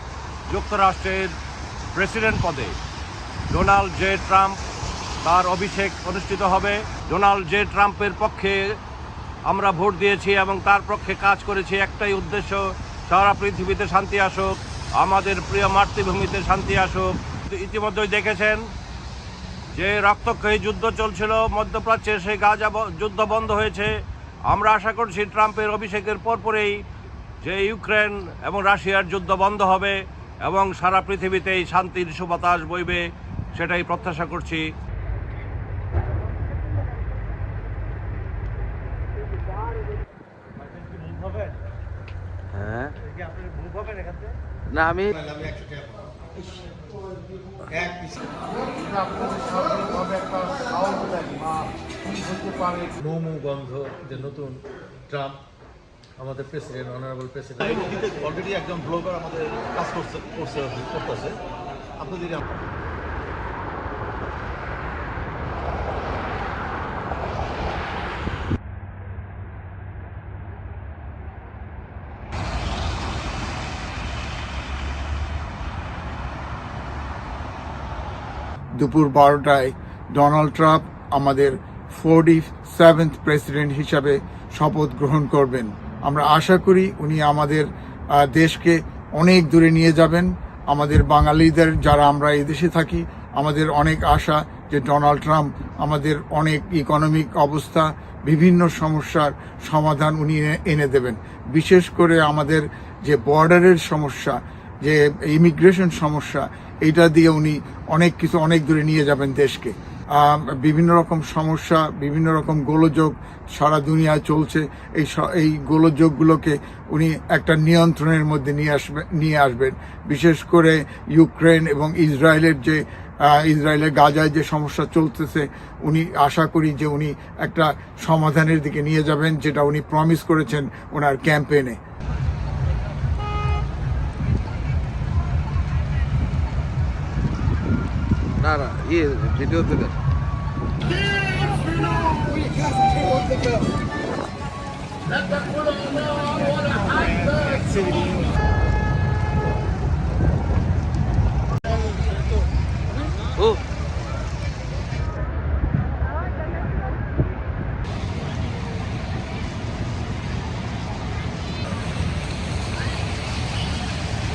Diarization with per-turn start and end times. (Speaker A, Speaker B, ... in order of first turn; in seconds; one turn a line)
Speaker A: 0.5-1.3
Speaker A: 1.9-2.8
Speaker A: 3.5-4.6
Speaker A: 5.2-8.6
Speaker A: 9.5-18.6
Speaker A: 19.8-23.9
Speaker A: 24.5-26.8
Speaker A: 27.4-33.0
Speaker A: 33.5-34.6
Speaker B: 42.5-42.9
Speaker B: 44.7-45.1
Speaker C: 48.9-51.6
Speaker D: 52.7-54.6
Speaker D: 55.1-55.4
Speaker D: 56.2-57.7
Speaker C: 57.6-61.3
Speaker C: 62.0-62.3
Speaker E: 78.8-131.8
Speaker B: 138.4-139.9